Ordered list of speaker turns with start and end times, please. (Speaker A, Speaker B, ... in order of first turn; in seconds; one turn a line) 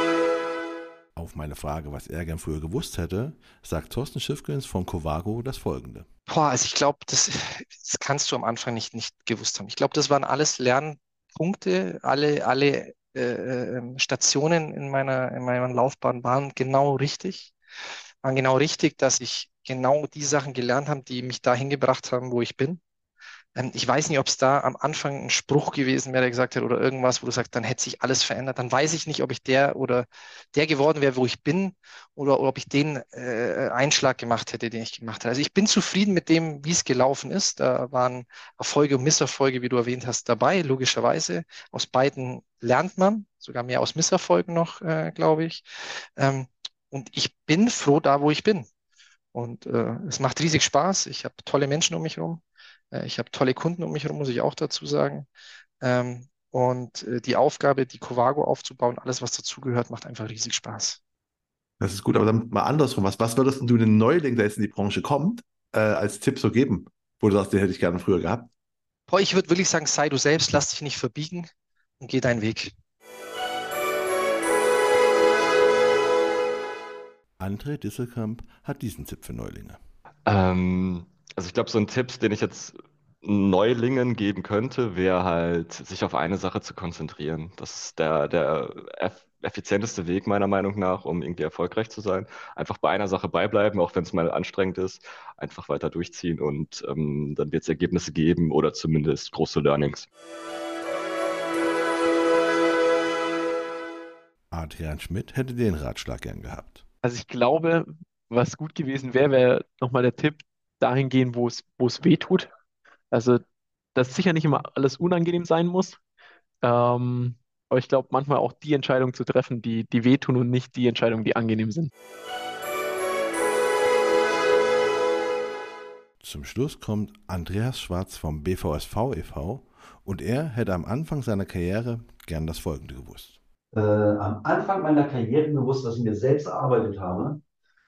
Speaker A: 1.1-6.1
Speaker B: 6.3-17.5
Speaker B: 18.2-22.8
Speaker B: 23.6-45.6
Speaker B: 46.2-48.7
Speaker B: 49.3-55.3
Speaker B: 55.8-61.0
Speaker C: 61.8-68.5
Speaker B: 69.1-71.5
Speaker B: 72.0-72.7
Speaker A: 77.4-79.8
Speaker D: 80.2-100.1
Speaker A: 104.5-106.8
Speaker E: 107.0-112.5
Speaker E: 113.1-113.4
Speaker E: 113.9-116.0
Speaker E: 116.6-121.9
Speaker A: 126.2-133.4
Speaker F: 133.7-137.4